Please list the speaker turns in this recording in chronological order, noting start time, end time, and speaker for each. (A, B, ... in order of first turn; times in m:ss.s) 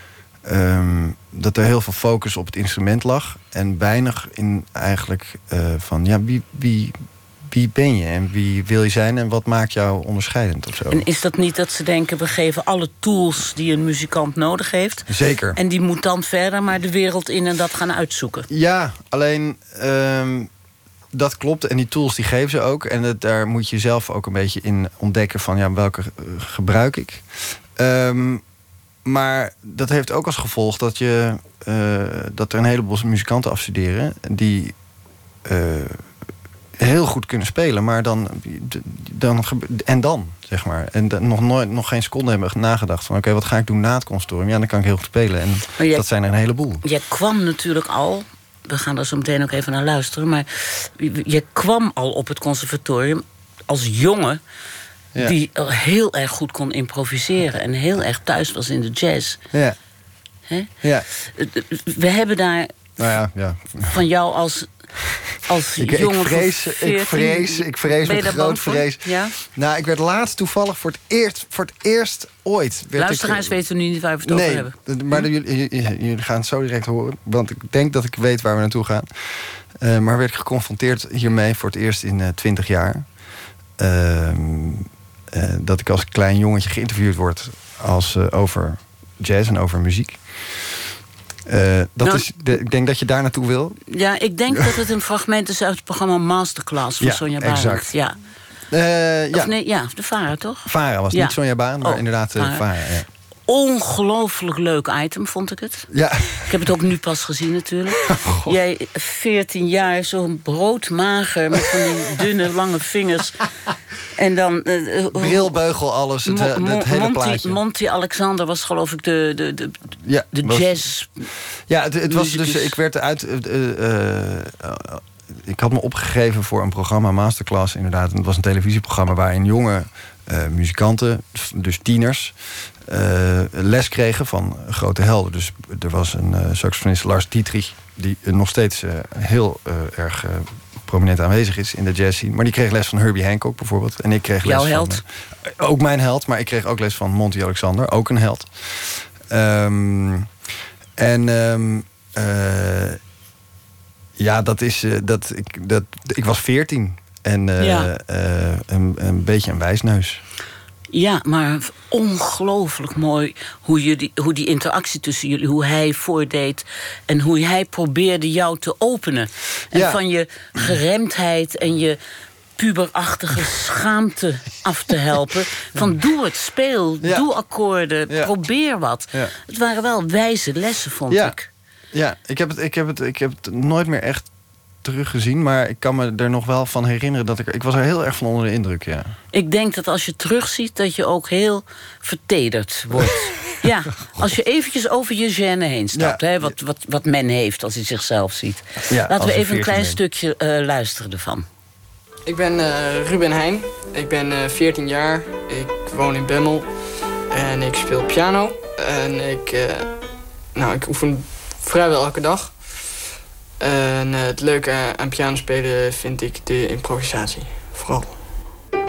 0:00.4-0:11.0 A
0:10.9-0:18.5 B
0:15.1-0:15.6 A
0:18.5-0:20.5 A
0:21.1-0:28.4 A
0:29.0-0:34.7 A
0:35.4-0:36.1 A
0:36.8-0:46.8 A
0:45.8-0:46.0 B
0:46.8-0:54.4 B
0:55.2-0:59.4 B
1:01.2-1:03.0 B
1:03.0-1:04.0 A
1:03.9-1:04.7 B
1:05.4-1:09.3 B
1:05.8-1:13.5 A
1:13.0-1:15.2 B
1:14.2-1:23.1 A
1:23.8-1:30.2 A
1:31.4-1:33.8 A
1:32.0-1:32.3 B
1:33.9-1:38.2 B
1:37.0-1:37.9 A
1:38.7-1:39.5 A
1:39.3-1:42.6 B
1:40.6-1:43.1 A
1:43.5-1:45.9 B
1:45.9-1:46.5 A
1:46.4-1:53.4 B
1:48.1-1:48.5 A
1:54.1-1:55.5 B
1:55.1-1:57.6 A
1:56.2-1:59.8 B
2:00.0-2:00.8 A
2:00.3-2:01.2 B
2:01.7-2:30.3 A
2:02.1-2:02.8 B
2:24.4-2:25.0 B
2:31.0-2:33.0 A
2:34.2-2:40.2 A
2:37.6-2:37.9 B
2:40.9-2:52.0 B
2:49.7-2:50.0 A
2:52.6-3:01.5 B
3:01.1-3:01.3 A
3:01.9-3:04.3 A
3:04.8-3:09.1 A
3:09.3-3:21.4 B
3:12.9-3:13.3 A
3:15.9-3:16.5 A
3:18.9-3:20.0 A
3:22.2-3:26.7 C
3:27.3-3:30.0 C
3:30.5-3:32.9 C
3:33.6-3:38.2 C